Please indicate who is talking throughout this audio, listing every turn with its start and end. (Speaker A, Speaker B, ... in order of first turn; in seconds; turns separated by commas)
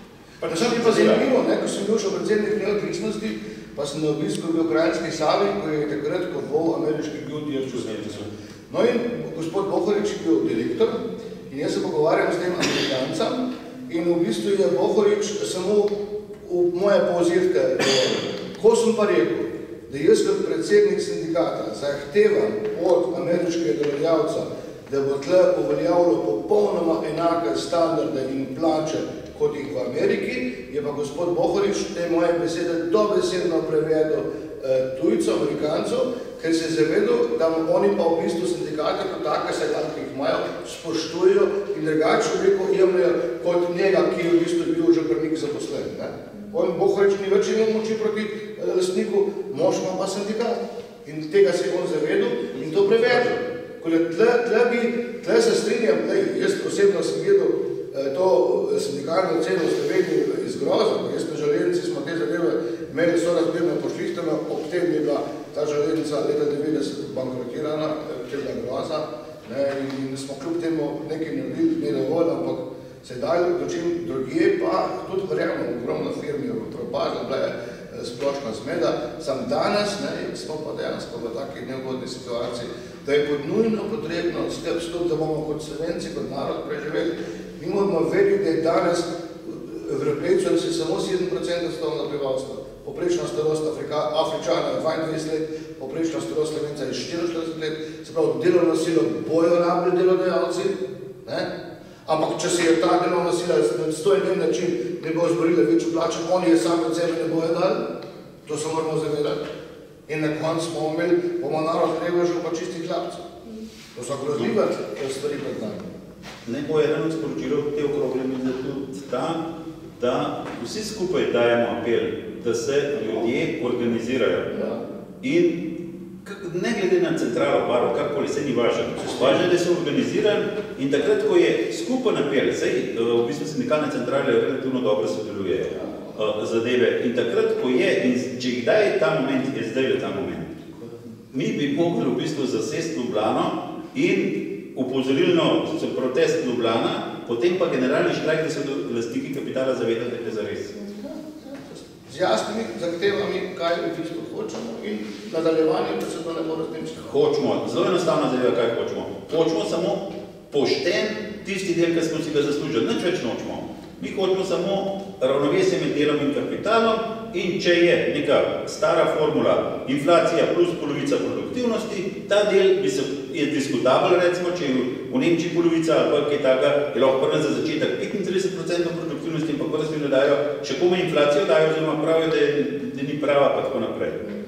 Speaker A: 0.4-1.2, Speaker B: 0.5-101.5, Speaker A: 7.8-8.1, Speaker B: 102.0-107.8, Speaker B: 108.5-109.4, Speaker B: 110.1-113.3, Speaker B: 114.0-115.9, Speaker A: 116.5-119.4, Speaker A: 120.0-125.7, Speaker B: 124.5-124.8, Speaker A: 126.2-140.6, Speaker B: 135.8-136.1, Speaker A: 141.3-150.7, Speaker B: 150.8-157.1, Speaker A: 157.1-184.2